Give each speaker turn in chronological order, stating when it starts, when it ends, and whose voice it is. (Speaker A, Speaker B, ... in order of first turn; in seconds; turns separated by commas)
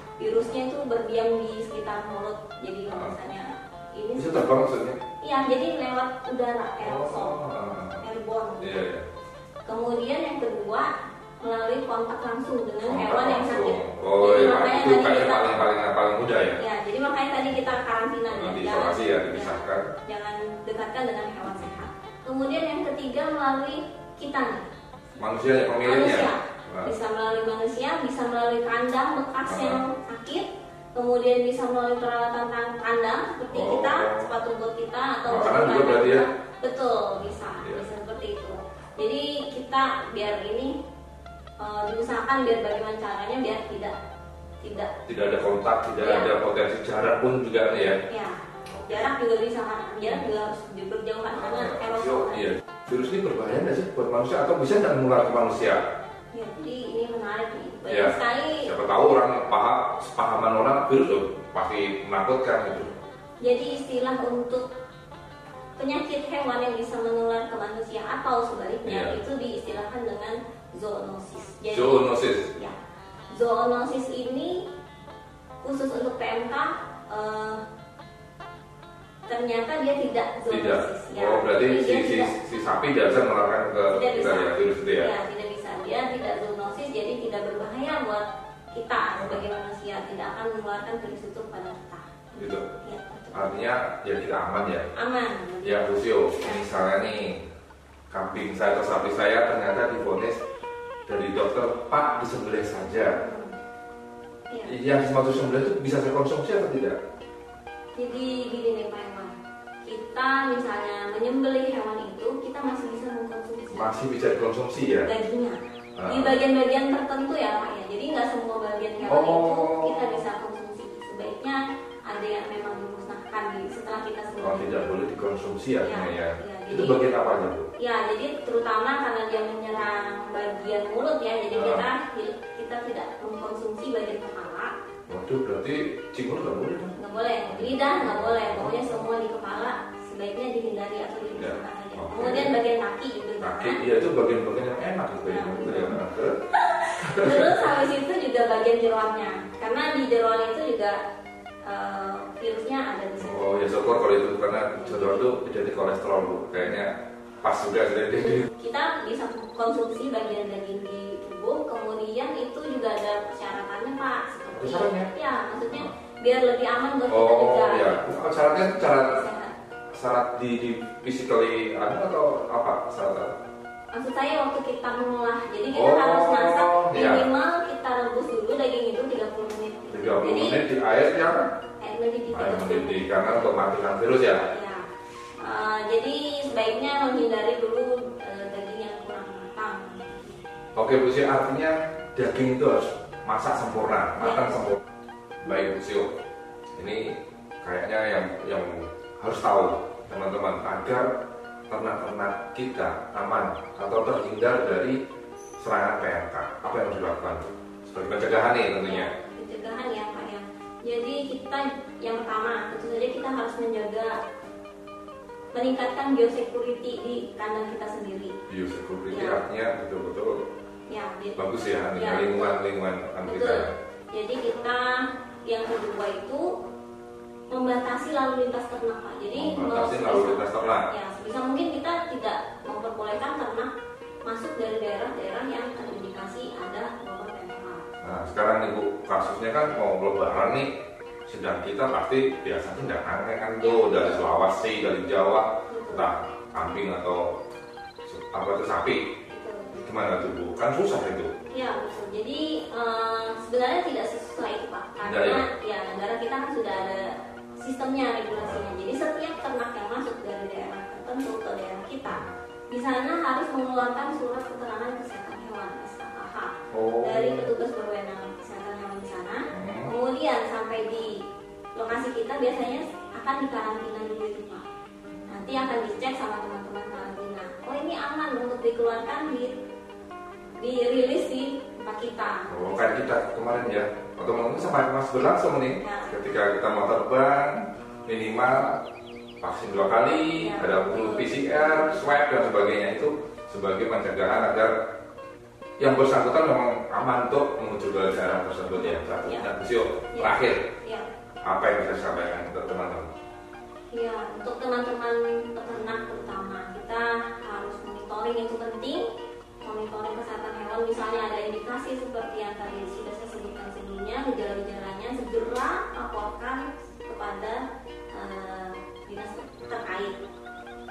Speaker A: 0.2-4.5, Speaker B: 2.9-3.2, Speaker B: 4.2-5.0, Speaker A: 5.2-7.4, Speaker B: 6.8-8.1, Speaker A: 8.0-8.8, Speaker B: 8.6-9.1, Speaker A: 9.7-10.9, Speaker A: 11.4-15.6, Speaker B: 12.8-16.6, Speaker A: 16.6-24.7, Speaker B: 18.3-19.9, Speaker B: 25.2-26.9, Speaker A: 25.8-40.8, Speaker B: 29.4-29.8, Speaker B: 33.5-34.3, Speaker B: 35.2-36.2, Speaker B: 37.6-37.9, Speaker A: 41.6-43.9, Speaker A: 44.6-44.9, Speaker B: 45.1-48.0, Speaker A: 46.0-46.3, Speaker A: 48.1-52.5, Speaker B: 48.7-49.1, Speaker B: 50.0-50.3, Speaker B: 51.4-55.8, Speaker A: 56.3-58.7, Speaker B: 57.9-62.9, Speaker A: 63.4-64.7, Speaker A: 65.8-72.8, Speaker B: 68.8-69.2, Speaker B: 71.7-72.5, Speaker A: 73.3-74.7, Speaker A: 75.6-77.6, Speaker A: 79.3-82.3, Speaker B: 80.5-85.1, Speaker A: 83.9-93.6, Speaker B: 89.1-89.4, Speaker B: 92.4-92.6, Speaker B: 93.3-94.9, Speaker A: 94.9-96.6, Speaker B: 95.6-97.4, Speaker B: 98.1-100.4, Speaker B: 101.1-103.2, Speaker A: 103.2-103.6, Speaker B: 104.7-107.0, Speaker A: 108.0-109.3, Speaker A: 109.8-113.9, Speaker B: 113.7-115.1, Speaker A: 115.0-124.8, Speaker B: 116.0-116.3, Speaker B: 119.1-120.1, Speaker B: 124.4-127.7, Speaker A: 125.8-127.0, Speaker A: 127.8-134.7, Speaker B: 131.5-131.8, Speaker B: 135.1-136.9, Speaker A: 136.9-143.8, Speaker B: 137.5-138.9, Speaker B: 141.4-142.5, Speaker B: 143.4-146.4, Speaker A: 145.2-151.0, Speaker B: 147.0-147.7, Speaker A: 151.7-155.3, Speaker B: 153.2-158.5, Speaker A: 158.6-169.5, Speaker B: 164.5-165.1, Speaker B: 167.1-169.2, Speaker B: 169.9-173.4, Speaker A: 173.9-180.6, Speaker B: 175.7-177.3, Speaker B: 179.9-181.5, Speaker A: 181.8-183.6, Speaker B: 182.3-184.4, Speaker A: 184.4-184.9, Speaker A: 185.4-190.3, Speaker B: 190.8-194.8, Speaker A: 194.2-194.6, Speaker B: 195.4-196.1, Speaker B: 196.8-205.0, Speaker B: 205.6-209.1, Speaker A: 208.8-214.2, Speaker A: 215.5-218.3, Speaker B: 218.5-220.4, Speaker A: 219.1-219.4, Speaker A: 220.9-221.4, Speaker B: 221.4-223.7, Speaker A: 221.9-222.6, Speaker A: 223.2-226.5, Speaker A: 227.5-233.7, Speaker B: 229.3-230.9, Speaker A: 234.3-237.8, Speaker B: 238.0-240.7, Speaker B: 241.3-247.3, Speaker A: 243.6-244.3, Speaker A: 245.7-246.1, Speaker B: 248.1-249.1, Speaker A: 249.3-249.8, Speaker B: 249.8-251.3, Speaker A: 251.5-271.2, Speaker B: 255.0-255.4, Speaker B: 258.3-258.7, Speaker B: 266.7-267.5, Speaker B: 269.5-269.9, Speaker A: 271.8-274.7, Speaker A: 275.3-279.6, Speaker A: 280.6-282.5, Speaker B: 282.5-288.8, Speaker A: 285.8-286.1, Speaker B: 289.4-294.8, Speaker A: 290.4-292.2, Speaker B: 295.8-300.7, Speaker A: 298.7-299.5, Speaker A: 300.1-301.1, Speaker B: 301.4-303.1, Speaker A: 303.9-309.1, Speaker A: 309.6-320.2